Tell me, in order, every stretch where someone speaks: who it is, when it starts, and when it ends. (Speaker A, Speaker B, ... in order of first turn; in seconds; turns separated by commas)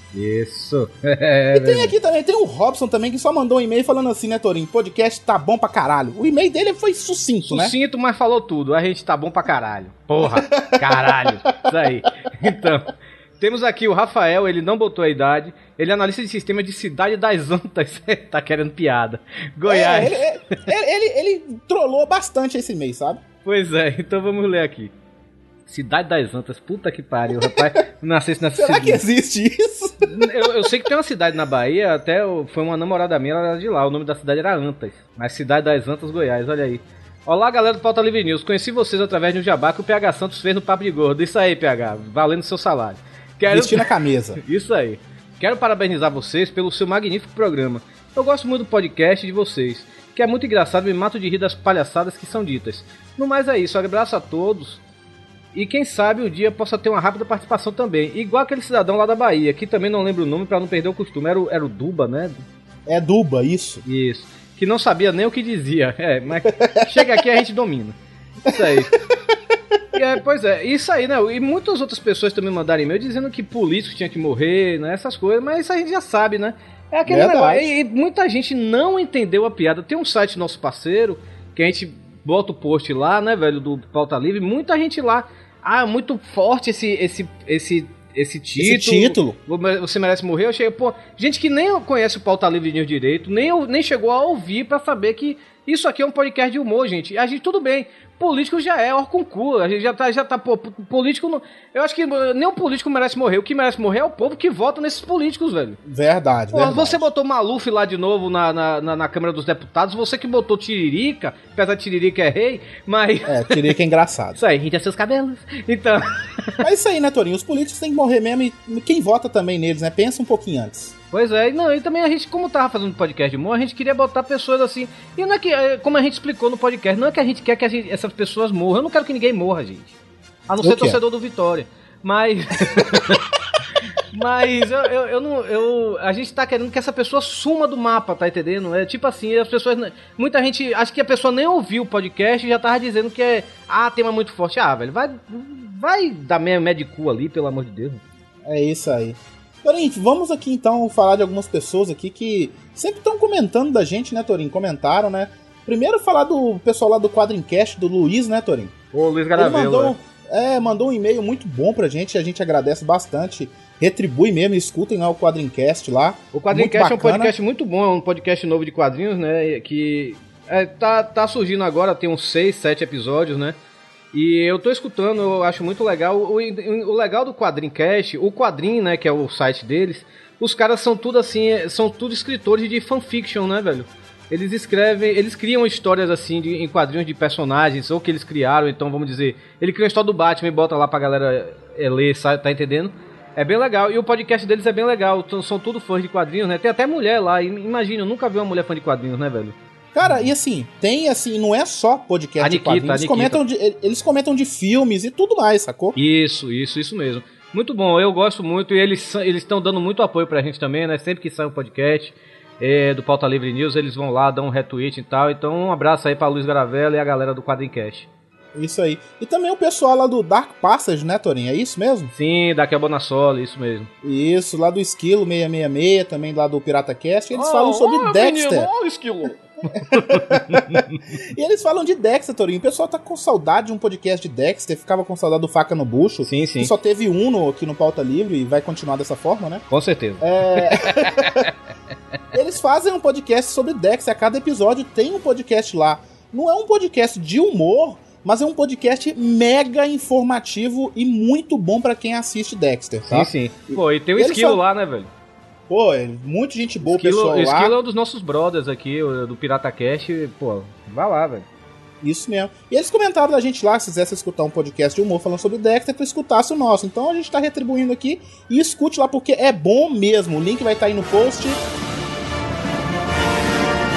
Speaker A: 0.1-1.9, Speaker B: 1.5-7.7, Speaker A: 7.4-20.2, Speaker B: 10.2-11.3, Speaker B: 19.6-23.2, Speaker A: 23.4-24.9, Speaker A: 25.7-29.0, Speaker B: 27.4-27.8, Speaker B: 28.6-30.7, Speaker A: 30.1-43.9, Speaker B: 43.5-44.4, Speaker A: 44.4-54.8, Speaker A: 55.5-62.4, Speaker B: 62.9-63.8, Speaker A: 63.9-68.0, Speaker B: 66.4-67.1, Speaker A: 68.5-68.9, Speaker A: 69.9-105.8, Speaker B: 77.1-77.7, Speaker B: 88.5-89.4, Speaker B: 105.8-107.0, Speaker A: 106.5-113.6, Speaker B: 113.2-114.4, Speaker A: 114.3-116.5, Speaker B: 116.6-120.9, Speaker A: 121.1-129.9, Speaker A: 130.5-133.2, Speaker B: 130.6-131.0, Speaker A: 134.1-148.0, Speaker B: 148.4-158.7, Speaker A: 158.9-159.9, Speaker B: 159.3-167.3, Speaker A: 166.3-173.6, Speaker A: 174.1-199.5, Speaker B: 199.9-206.0, Speaker A: 202.4-203.4, Speaker A: 205.9-218.1, Speaker B: 218.5-222.1, Speaker A: 222.1-223.9, Speaker B: 224.0-228.7, Speaker A: 227.3-231.0, Speaker B: 229.8-239.6, Speaker A: 236.2-236.7, Speaker A: 239.7-240.7, Speaker B: 240.2-241.5, Speaker B: 242.3-254.6, Speaker A: 253.1-255.1, Speaker B: 255.7-257.8, Speaker A: 256.8-261.4, Speaker B: 262.0-271.6